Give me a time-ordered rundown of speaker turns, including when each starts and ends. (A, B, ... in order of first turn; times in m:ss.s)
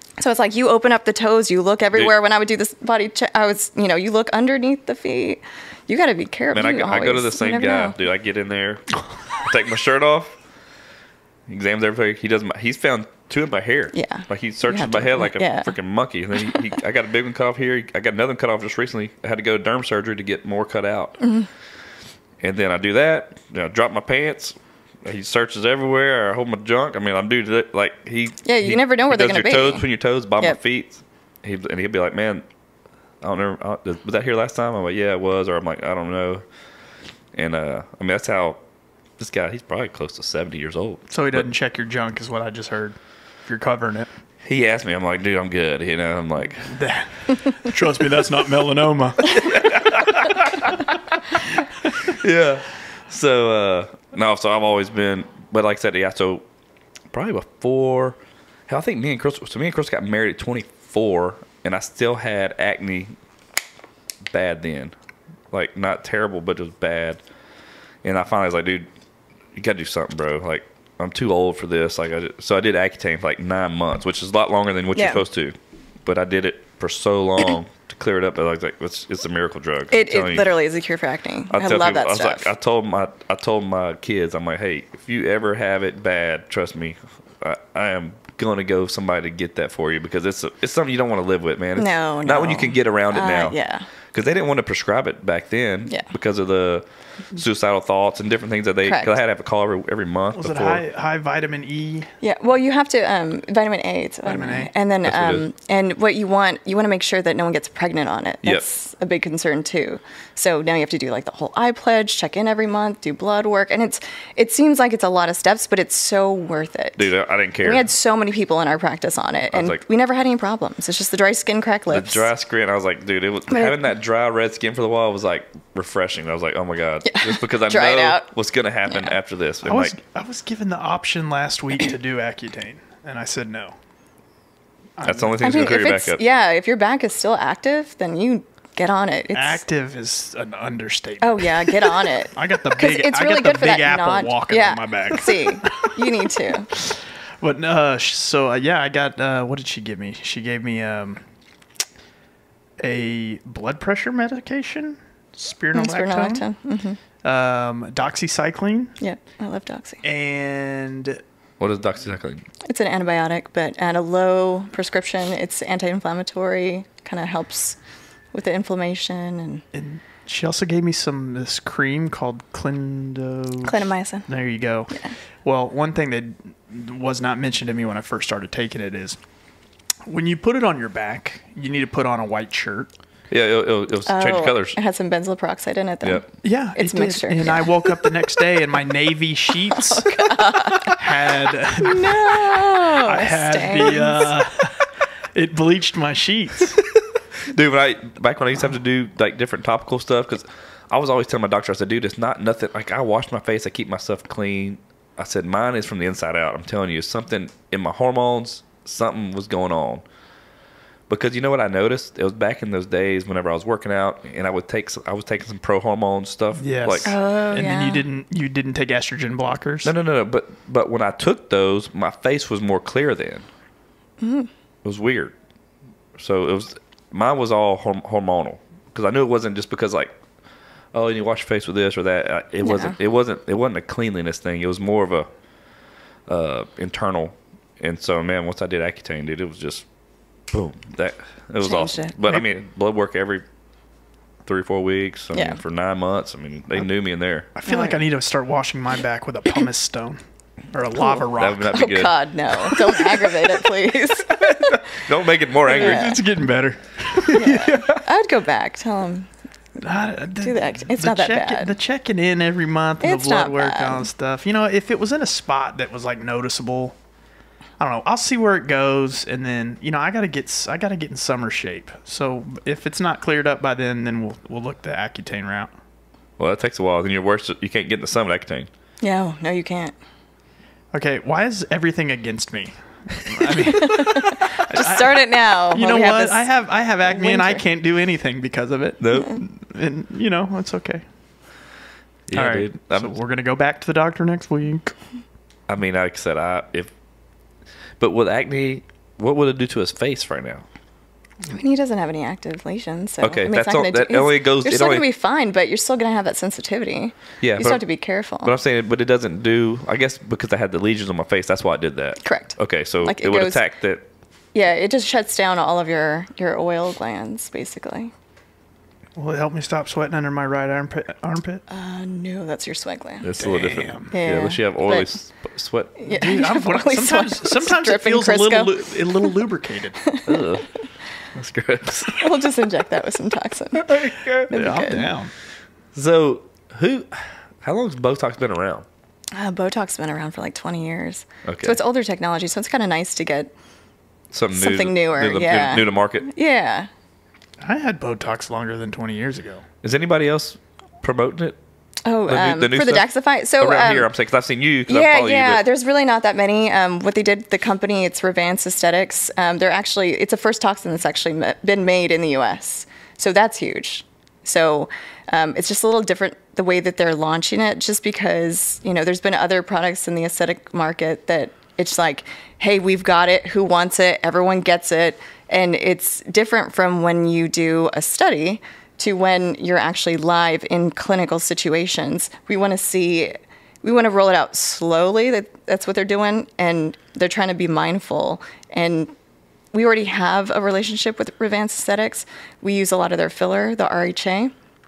0:00.2-0:08.0 A
0:06.5-0:10.3 B
0:11.5-0:21.2 B
0:13.9-0:15.7 A
0:21.2-0:21.5 A
0:22.4-0:32.4 B
0:28.4-0:29.9 A
0:33.2-0:36.4 B
0:37.3-0:38.6 B
0:39.2-0:41.5 B
0:41.1-0:44.1 C
0:44.4-0:46.7 B
0:46.7-0:49.8 C
0:49.4-0:50.7 B
0:52.1-0:56.4 B
0:57.1-0:58.2 B
0:58.7-1:03.1 B
1:04.3-1:04.9 B
1:05.5-1:07.2 B
1:08.0-1:08.9 B
1:09.6-1:20.5 B
1:15.0-1:15.2 A
1:19.9-1:22.5 A
1:21.5-1:33.6 B
1:31.8-1:33.9 A
1:34.1-1:40.8 B
1:38.8-1:39.1 A
1:40.4-1:42.1 C
1:42.2-1:57.1 A
1:44.2-1:44.7 C
1:45.0-1:45.5 B
1:57.0-1:57.9 B
1:57.6-2:02.3 A
1:59.5-1:59.8 B
2:01.9-2:09.9 B
2:03.5-2:03.8 A
2:07.0-2:08.3 A
2:09.6-2:13.8 C
2:15.0-2:15.4 C
2:15.0-2:16.2 B
2:15.4-2:19.6 A
2:19.3-2:25.9 C
2:21.2-2:26.7 A
2:26.8-2:31.2 C
2:32.8-2:36.5 C
2:35.7-2:37.0 A
2:37.2-2:39.0 C
2:39.0-2:40.0 A
2:40.0-2:41.2 C
2:41.6-2:42.5 B
2:42.6-2:47.8 A
2:48.3-2:49.6 A
2:49.7-2:59.2 C
2:53.6-2:54.3 A
3:00.1-3:02.9 C
3:03.3-3:04.8 B
3:04.1-3:08.0 A
3:06.4-3:10.1 C
3:09.8-3:11.0 A
3:10.9-3:12.4 C
3:11.8-3:14.4 A
3:13.0-3:14.8 C
3:15.3-3:16.8 C
3:17.5-3:30.0 B
3:31.1-3:37.1 B
3:36.6-3:39.9 C
3:37.0-3:38.0 A
3:39.8-3:43.5 B
3:44.2-3:44.5 A
3:44.8-3:45.3 B
3:46.2-3:50.1 B
3:50.9-3:55.3 B
3:52.6-3:53.0 A
3:56.3-3:59.9 B
4:00.5-4:03.4 B
4:01.6-4:02.2 A
4:04.5-4:07.5 B
4:05.3-4:05.6 A
4:07.6-4:10.2 C
4:07.7-4:08.0 A
4:10.7-4:11.7 C
4:11.0-4:14.4 A
4:11.4-4:12.1 B
4:12.7-4:13.0 C
4:14.3-4:14.8 C
4:15.0-4:16.1 B
4:15.7-4:17.7 C
4:15.7-4:16.2 A
4:17.4-4:19.3 A
4:17.4-4:17.8 B
4:19.8-4:27.0 C
4:20.4-4:21.7 A
4:23.0-4:24.1 A
4:27.8-4:35.7 C
4:36.4-4:38.7 B
4:39.0-4:40.0 A
4:40.9-4:51.0 C
4:43.8-4:46.5 A
4:47.1-4:47.6 A
4:49.0-4:49.4 B
4:52.3-4:53.1 B
4:52.3-4:54.9 C
4:55.7-4:56.9 B
4:58.0-5:00.6 B
5:01.6-5:08.5 A
5:03.2-5:05.1 B
5:07.4-5:07.8 B
5:08.4-5:14.0 B
5:12.2-5:13.6 A
5:14.5-5:18.1 A
5:19.2-5:21.6 C
5:21.7-5:23.3 A
5:23.2-5:25.9 B
5:23.4-5:24.1 C
5:24.1-5:25.1 A
5:26.0-5:29.3 A
5:26.1-5:30.0 C
5:30.3-5:30.7 B
5:31.3-5:32.4 B
5:32.1-5:33.9 A
5:33.8-5:34.5 B
5:34.5-5:35.1 A
5:34.5-5:35.3 C
5:35.9-5:38.9 B
5:39.4-5:43.5 A
5:41.4-5:41.8 B
5:44.3-5:46.3 B
5:44.5-5:46.9 A
5:47.6-5:49.6 C
5:49.8-5:51.6 B
5:52.0-5:54.1 A
5:52.3-5:53.1 B
5:53.6-5:55.6 B
5:54.9-6:29.1 A
6:29.7-6:34.5 A